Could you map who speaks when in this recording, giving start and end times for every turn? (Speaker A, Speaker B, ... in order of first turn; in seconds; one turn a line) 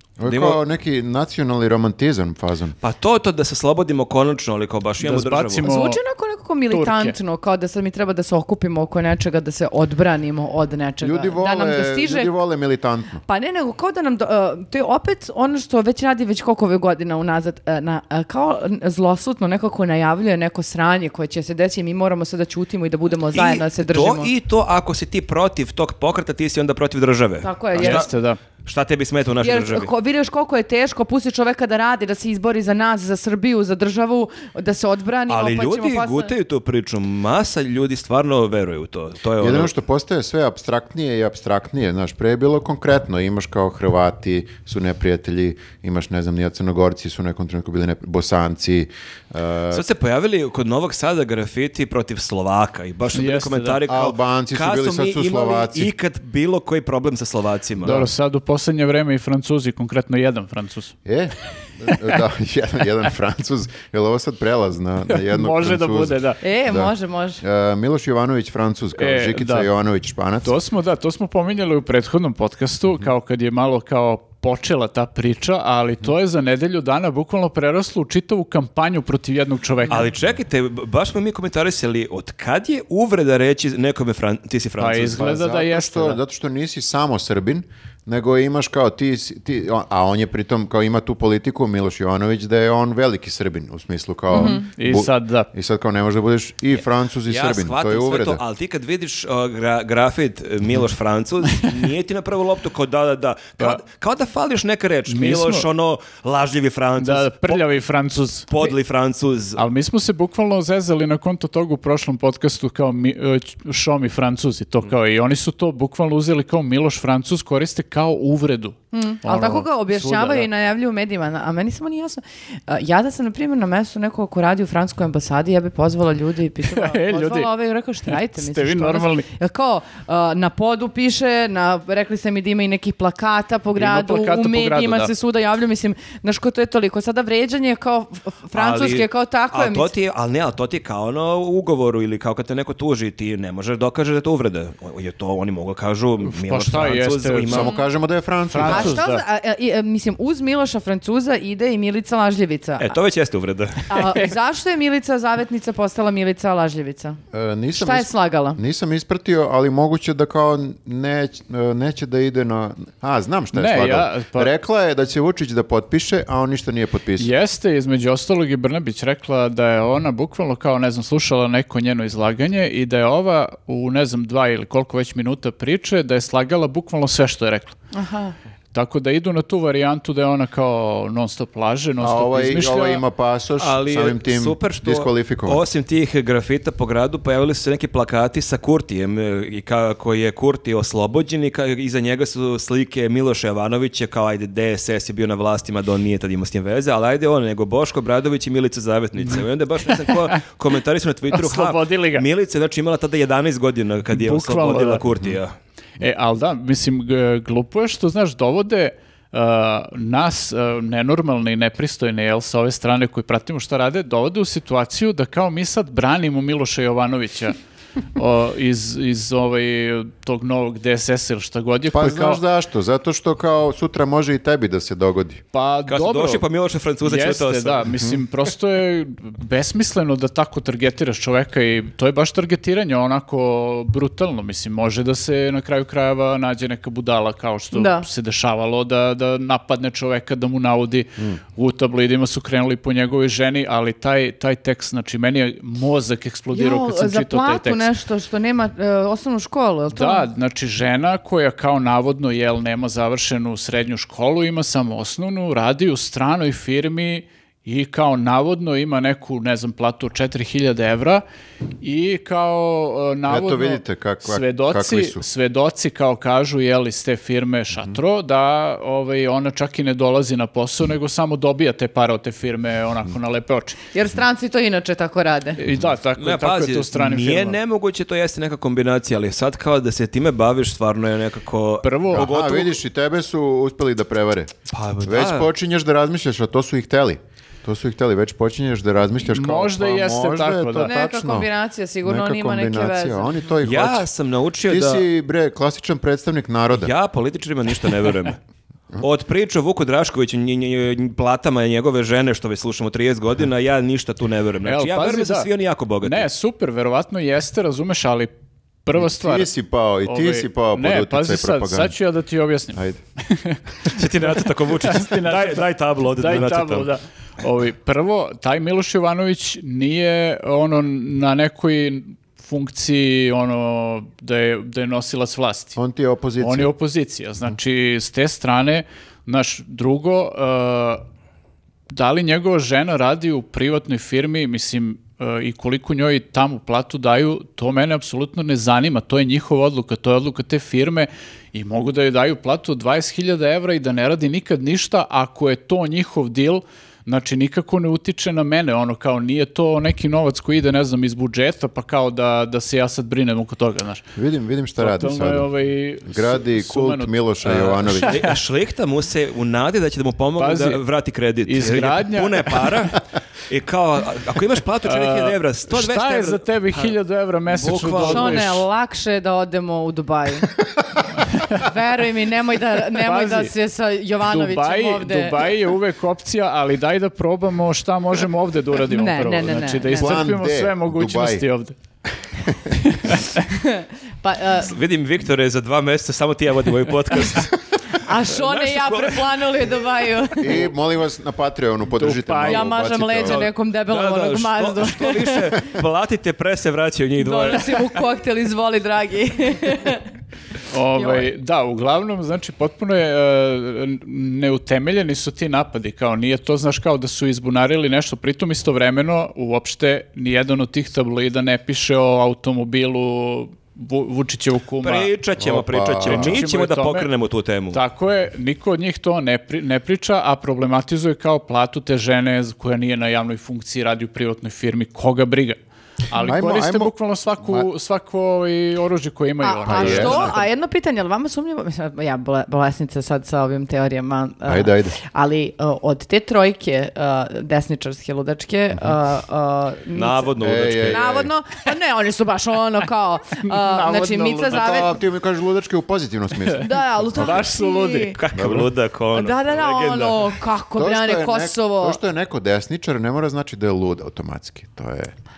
Speaker A: 0.2-2.8
Speaker B: 0.2-0.6
Speaker B: 2.8-5.7
Speaker C: 5.0-6.0
Speaker D: 5.6-12.3
Speaker C: 6.7-7.1
Speaker A: 11.0-13.2
Speaker D: 13.2-24.3
Speaker B: 23.3-28.1
Speaker D: 27.4-28.1
Speaker C: 27.8-28.4
Speaker B: 28.6-29.9
Speaker D: 29.4-36.3
Speaker B: 35.3-39.7
Speaker A: 39.4-49.8
Speaker B: 49.7-58.1
Speaker C: 53.1-53.8
Speaker A: 53.9-55.9
Speaker C: 57.8-60.9
Speaker A: 61.0-70.5
Speaker C: 65.1-66.4
Speaker D: 66.4-67.4
Speaker C: 69.0-69.7
Speaker C: 70.4-80.1
Speaker B: 79.9-85.3
Speaker C: 84.8-86.2
Speaker A: 85.1-98.4
Speaker D: 94.3-94.6
Speaker C: 94.3-95.5
Speaker B: 97.3-107.6
Speaker C: 105.1-105.7
Speaker C: 107.0-108.7
Speaker B: 108.5-109.6
Speaker C: 109.6-120.5
Speaker D: 118.9-139.9
Speaker C: 126.7-127.5
Speaker C: 128.1-129.3
Speaker C: 133.8-135.1
Speaker B: 138.5-147.7
Speaker C: 146.2-147.7
Speaker A: 147.4-149.0
Speaker C: 148.5-149.2
Speaker D: 148.6-152.9
Speaker B: 152.8-154.1
Speaker D: 153.9-157.2
Speaker A: 157.3-167.3
Speaker D: 157.7-158.6
Speaker C: 163.5-164.5
Speaker C: 167.2-177.8
Speaker D: 177.9-178.3
Speaker C: 178.7-183.0
Speaker A: 182.0-185.6
Speaker B: 183.6-205.5
Speaker C: 199.9-200.3
Speaker C: 201.3-202.2
Speaker C: 204.1-205.1
Speaker C: 206.0-217.6
Speaker C: 218.1-222.4
Speaker A: 221.9-225.4
Speaker C: 225.5-226.4
Speaker B: 225.9-227.9
Speaker C: 227.0-247.9
Speaker D: 237.7-238.1
Speaker D: 246.5-250.3
Speaker C: 249.9-261.2
Speaker C: 261.8-273.8
Speaker A: 263.2-265.2
Speaker A: 267.7-268.0
Speaker D: 273.9-275.6
Speaker C: 275.6-277.6
Speaker B: 276.2-282.8
Speaker C: 281.8-282.3
Speaker A: 282.1-284.5
Speaker B: 284.7-285.5
Speaker A: 285.0-291.5
Speaker C: 289.3-290.9
Speaker D: 290.8-293.4
Speaker A: 292.0-294.1
Speaker B: 293.6-295.0
Speaker A: 294.7-296.9
Speaker B: 296.7-298.4
Speaker B: 299.0-306.3
Speaker C: 304.6-305.5
Speaker C: 306.0-308.3
Speaker C: 308.8-309.5
Speaker A: 308.9-311.9
Speaker C: 310.0-325.8
Speaker A: 312.7-313.0
Speaker B: 313.9-316.9
Speaker A: 325.8-326.7
Speaker C: 326.4-331.0
Speaker C: 331.9-354.1
Speaker A: 354.1-355.5
Speaker C: 354.8-358.3
Speaker A: 356.0-358.4
Speaker B: 358.0-368.5
Speaker C: 360.4-360.8
Speaker C: 361.4-362.9
Speaker C: 364.8-368.6
Speaker D: 368.0-370.5
Speaker D: 371.4-375.6
Speaker C: 372.9-373.5
Speaker C: 374.2-381.7
Speaker D: 378.8-380.2
Speaker A: 379.8-381.4
Speaker C: 382.8-383.4
Speaker D: 383.5-384.7
Speaker B: 384.6-389.5
Speaker D: 387.9-390.7
Speaker A: 390.4-393.5
Speaker C: 391.9-392.7
Speaker D: 392.4-395.7
Speaker B: 393.2-398.0
Speaker D: 397.2-400.1
Speaker C: 400.7-415.1
Speaker D: 401.0-401.3
Speaker B: 414.8-417.8
Speaker A: 415.4-416.4
Speaker C: 416.0-417.1
Speaker C: 417.7-425.6
Speaker C: 426.1-430.4
Speaker A: 426.1-427.7
Speaker D: 429.4-444.9
Speaker A: 429.6-430.4
Speaker A: 434.4-434.9
Speaker B: 439.9-441.2
Speaker A: 440.4-441.3
Speaker C: 443.4-444.7
Speaker A: 444.4-447.4
Speaker D: 446.6-448.2
Speaker C: 447.1-448.2
Speaker B: 448.1-450.3
Speaker A: 448.3-448.7
Speaker D: 449.1-452.0
Speaker A: 450.8-455.1